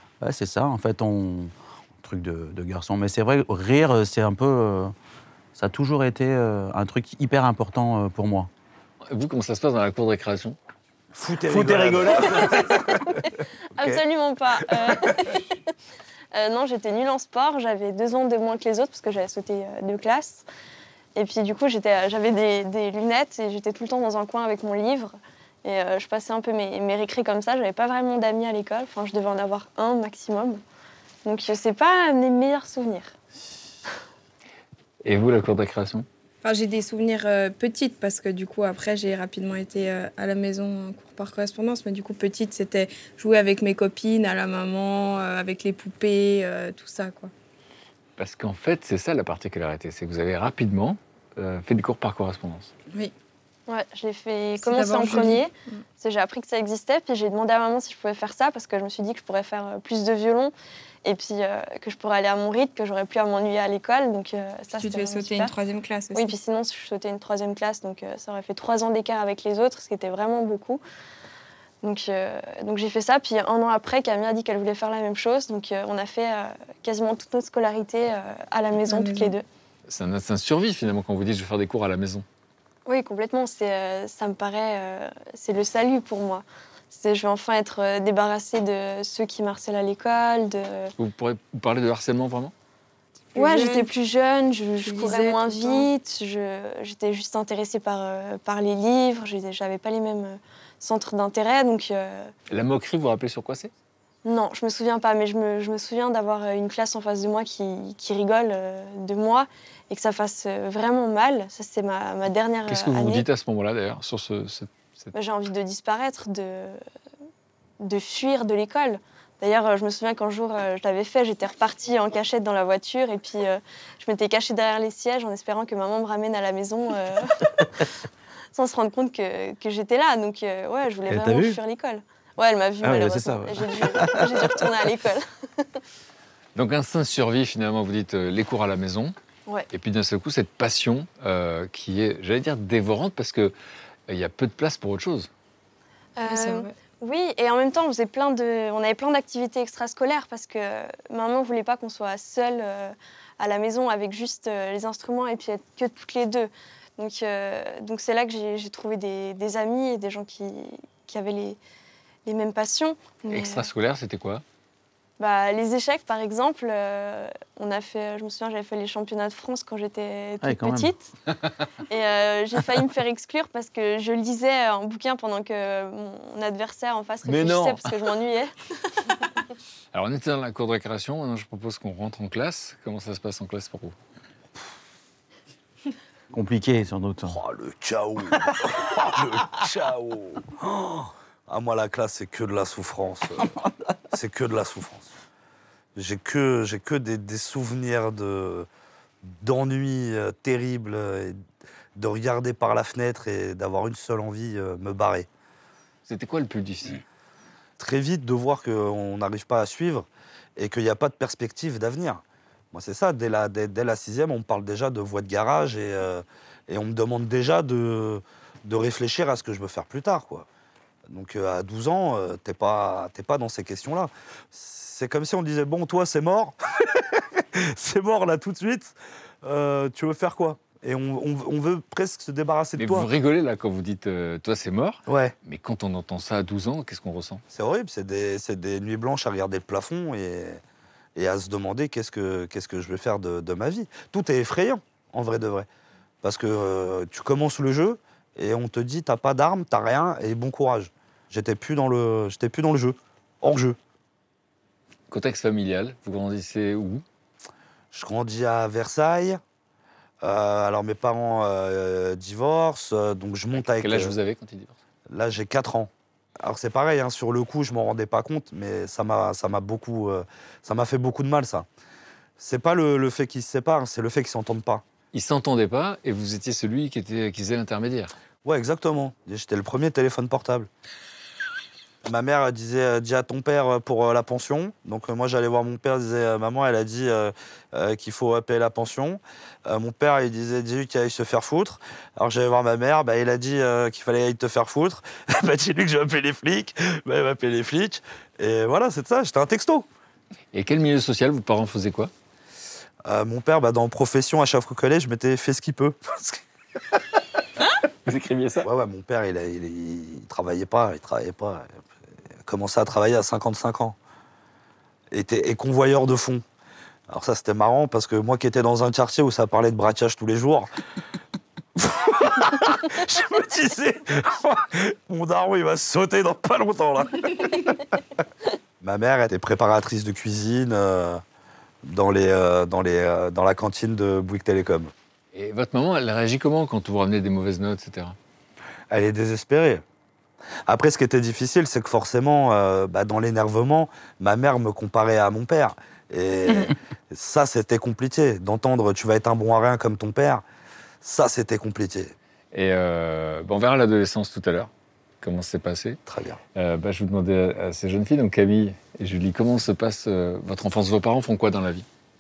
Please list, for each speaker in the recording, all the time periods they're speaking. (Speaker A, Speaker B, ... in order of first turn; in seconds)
Speaker A: 0.2-4.9, 5.5-8.5, 11.4-13.0, 131.1-131.6, 132.8-134.7, 170.4-170.9, 186.3-187.4
Speaker B: 9.1-10.6, 35.0-36.1, 48.2-52.7, 79.9-82.2, 91.0-92.5, 102.5-103.7, 112.7-115.1, 136.6-139.2, 139.7-143.5, 144.1-145.3, 163.3-164.4, 177.2-177.9, 179.9-183.9, 206.1-207.0, 232.8-237.4, 255.1-257.0, 263.6-264.8, 275.1-278.1, 300.5-302.1, 307.6-308.7, 335.3-338.2, 352.5-354.7, 355.2-356.0, 356.6-361.9
Speaker C: 11.2-14.0, 187.3-193.6, 194.1-195.1, 196.0-198.7, 199.2-201.4, 202.0-205.3, 207.8-212.2, 212.7-220.5, 221.1-233.1, 235.1-235.3, 237.5-240.6, 241.2-245.7, 246.2-253.8, 257.9-259.4, 260.2-264.1, 265.1-271.7, 272.4-274.8, 278.4-280.7, 282.0-299.9, 303.1-306.4, 308.6-311.7, 312.4-314.0, 315.1-316.4, 317.1-320.7, 321.8-328.0, 328.8-331.2, 331.9-334.9, 338.9-339.8, 340.7-350.4, 351.0-352.1, 356.1-356.4
Speaker D: 13.8-15.5, 16.3-20.4, 21.1-30.6, 31.2-33.1, 53.7-60.5, 61.0-65.5, 66.1-70.8, 71.8-79.4, 82.9-90.9, 93.4-102.3, 104.2-113.3, 115.1-116.8, 117.8-127.7, 128.5-135.7, 146.2-161.6, 162.3-163.7, 165.2-171.1, 171.9-178.5
Speaker E: 36.4-47.3, 54.6-55.8, 64.8-66.3, 78.8-79.4, 93.3-93.9, 94.8-95.9, 146.2-146.7